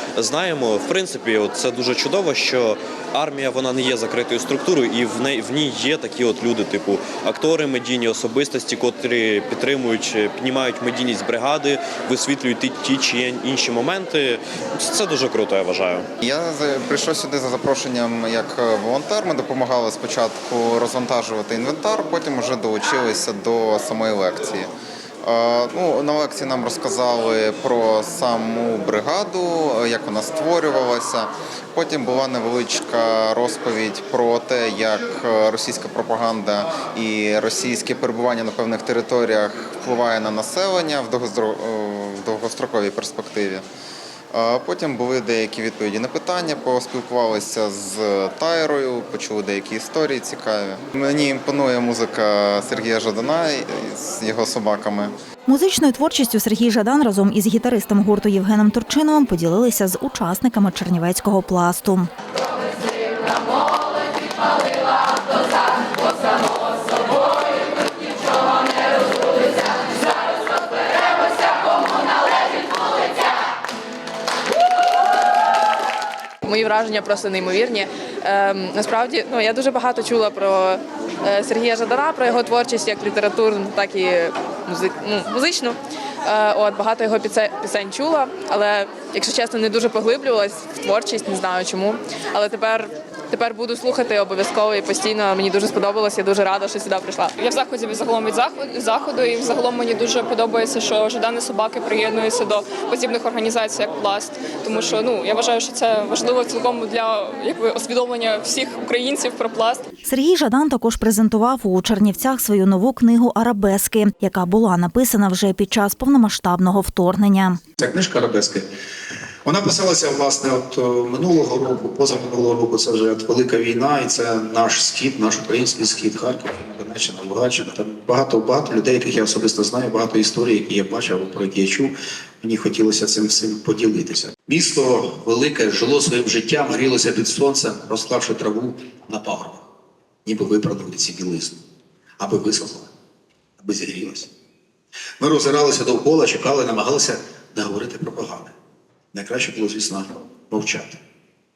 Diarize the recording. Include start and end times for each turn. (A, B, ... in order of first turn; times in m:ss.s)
0:00.2-0:16.1 A
0:16.2-0:24.7 B
0:25.2-0:43.6 B
0:44.3-0:55.1 B
0:55.5-1:02.1 C
1:16.5-1:25.7 D
1:26.3-1:37.3 D
1:37.3-1:49.9 E
1:50.0-1:57.6 C
1:57.8-1:58.7 F
1:59.4-2:19.6 F
2:20.2-2:21.6 F
2:22.2-2:22.9 F
2:23.6-2:24.3 F
2:25.2-2:28.5 F
2:29.1-2:31.0 F